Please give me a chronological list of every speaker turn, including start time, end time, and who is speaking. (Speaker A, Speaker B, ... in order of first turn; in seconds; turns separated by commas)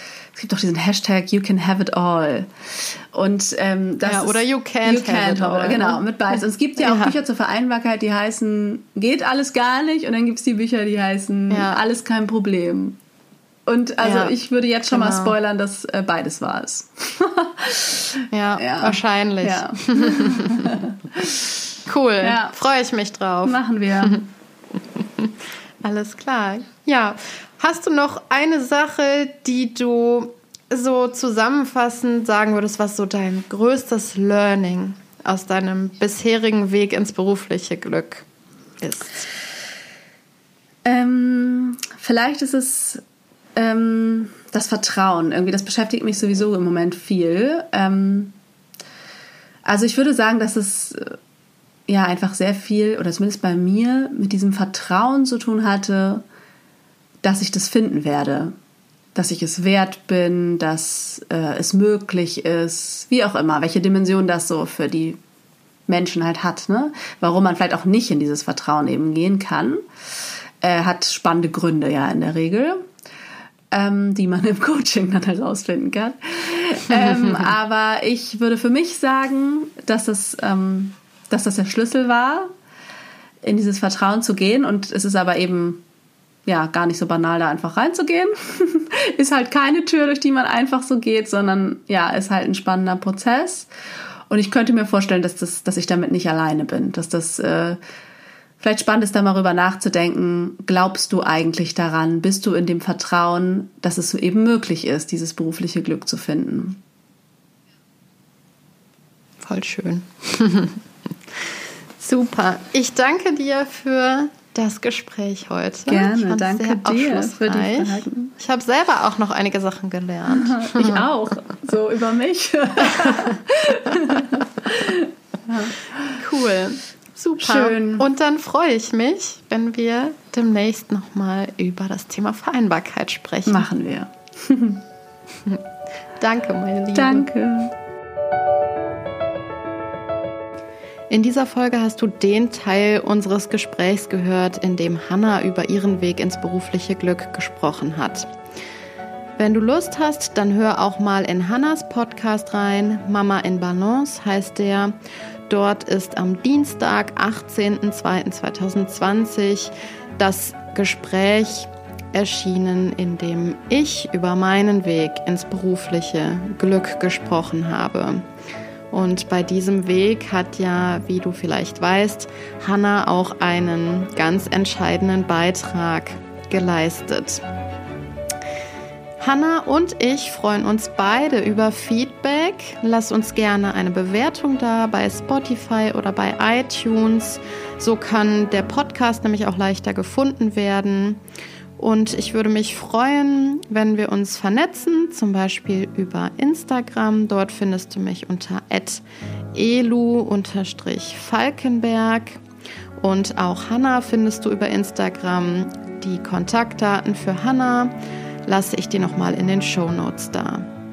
Speaker A: 0.3-13.0, Speaker B: 4.0-7.2, Speaker B: 11.5-11.8, Speaker A: 13.7-21.6, Speaker B: 14.0-14.3, Speaker B: 14.9-15.3, Speaker B: 18.3-20.8, Speaker B: 21.9-24.3, Speaker A: 22.2-22.5, Speaker A: 23.4-24.2, Speaker B: 24.9-38.3, Speaker B: 38.8-39.3, Speaker A: 40.9-43.0, Speaker A: 43.6-48.4, Speaker A: 49.7-51.2, Speaker A: 51.9-56.2, Speaker A: 57.2-58.5, Speaker A: 59.1-65.2, Speaker A: 65.9-69.8, Speaker A: 70.6-72.8, Speaker A: 73.7-82.5, Speaker A: 83.4-85.8, Speaker A: 86.5-93.7, Speaker A: 94.3-97.8, Speaker A: 98.6-106.8, Speaker B: 109.4-110.8, Speaker B: 112.0-121.0, Speaker A: 115.9-118.3, Speaker A: 120.3-126.2, Speaker B: 122.8-123.3, Speaker B: 126.1-133.7, Speaker A: 127.4-128.1, Speaker A: 133.5-134.8, Speaker B: 136.2-137.3, Speaker A: 136.9-137.7, Speaker B: 141.1-148.3, Speaker B: 149.4-154.9, Speaker B: 155.5-168.3, Speaker B: 168.9-177.4, Speaker B: 179.2-191.2, Speaker B: 191.8-202.4, Speaker B: 203.0-207.9, Speaker B: 208.4-210.7